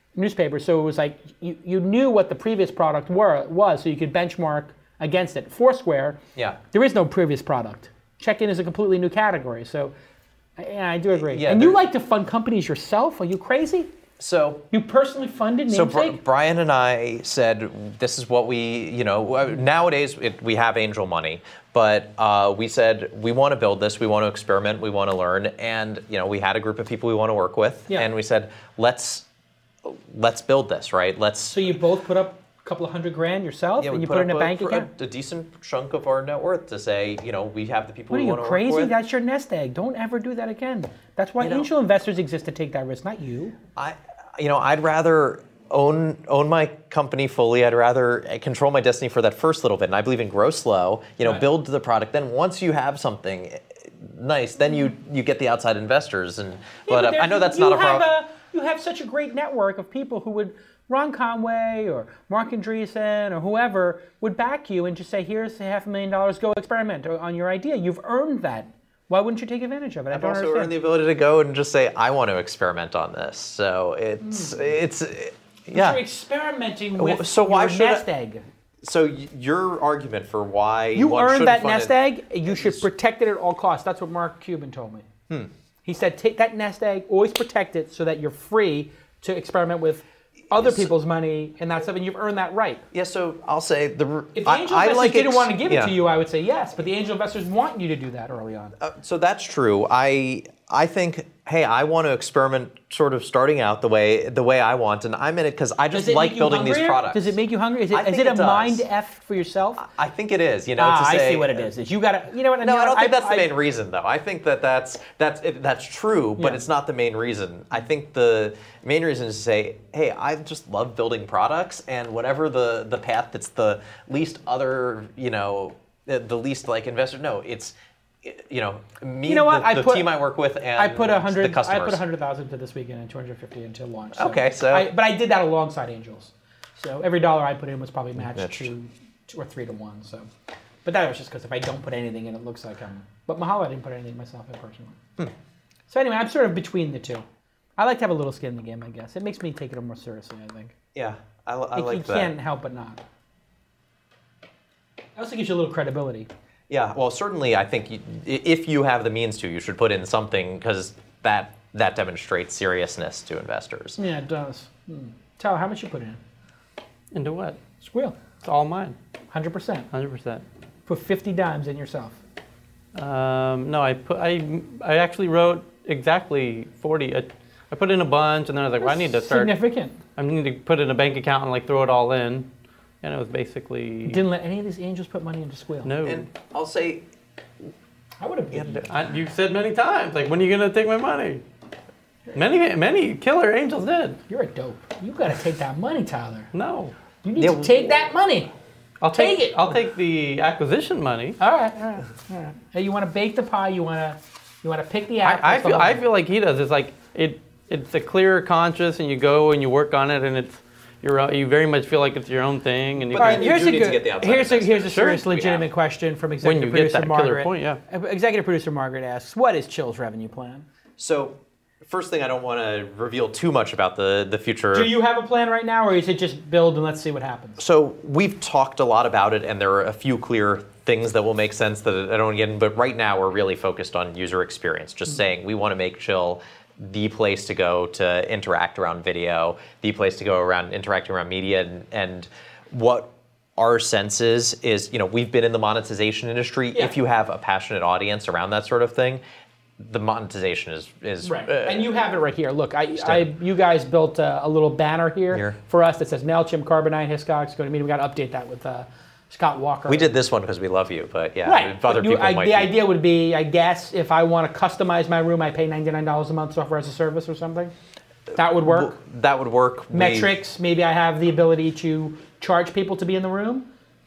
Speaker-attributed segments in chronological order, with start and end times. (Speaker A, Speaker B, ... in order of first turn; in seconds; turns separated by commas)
Speaker A: 0.1-6.2, Speaker A: 6.7-9.9, Speaker A: 10.6-13.9, Speaker B: 11.2-11.8, Speaker B: 14.2-14.6, Speaker A: 14.7-16.2, Speaker B: 15.7-29.2, Speaker B: 29.8-31.8, Speaker A: 31.5-34.9, Speaker B: 33.8-38.9, Speaker A: 38.1-43.6, Speaker B: 41.4-41.7, Speaker B: 43.8-58.1, Speaker A: 56.9-70.7, Speaker B: 70.1-76.0, Speaker A: 74.2-74.8, Speaker A: 75.7-78.4, Speaker B: 77.0-78.0, Speaker B: 78.8-82.8, Speaker A: 81.0-85.1, Speaker A: 85.8-92.8, Speaker B: 90.6-90.9, Speaker B: 92.9-96.0, Speaker A: 94.3-98.8, Speaker B: 98.8-107.4, Speaker A: 105.9-109.8, Speaker B: 107.9-108.8, Speaker B: 109.8-111.7, Speaker A: 110.8-113.5, Speaker B: 112.6-132.0, Speaker A: 129.3-130.2, Speaker A: 130.8-140.3, Speaker B: 134.2-134.9, Speaker B: 138.2-138.7, Speaker A: 140.8-145.0, Speaker A: 145.9-147.2, Speaker A: 147.8-150.7, Speaker B: 150.9-152.3, Speaker A: 151.8-153.0, Speaker A: 155.2-156.3, Speaker B: 156.7-164.0, Speaker A: 164.0-166.2, Speaker C: 167.1-167.6, Speaker A: 167.8-168.2, Speaker C: 168.4-169.0, Speaker A: 169.3-169.9, Speaker C: 169.9-170.4, Speaker A: 170.9-172.2, Speaker C: 172.9-179.6, Speaker A: 178.8-180.0, Speaker C: 180.2-182.5, Speaker C: 183.0-184.2, Speaker A: 184.1-185.9, Speaker C: 185.8-186.3, Speaker B: 186.0-187.1, Speaker A: 188.2-188.9, Speaker C: 188.7-191.4, Speaker C: 192.3-194.2, Speaker A: 194.3-196.5, Speaker C: 196.5-196.9, Speaker A: 197.2-198.5, Speaker B: 197.4-197.9, Speaker C: 199.0-201.4, Speaker A: 199.1-199.7, Speaker A: 201.4-206.0, Speaker C: 205.2-213.6, Speaker B: 213.1-215.7, Speaker A: 213.1-220.7, Speaker C: 214.9-215.2, Speaker C: 216.4-217.8, Speaker B: 221.0-224.9, Speaker A: 224.7-227.6, Speaker B: 227.6-249.2, Speaker B: 249.8-252.1, Speaker A: 251.2-260.1, Speaker B: 253.0-253.3, Speaker B: 255.3-255.6, Speaker B: 259.9-262.7, Speaker A: 261.4-267.7, Speaker A: 268.4-269.0, Speaker B: 268.6-270.3, Speaker A: 269.9-273.7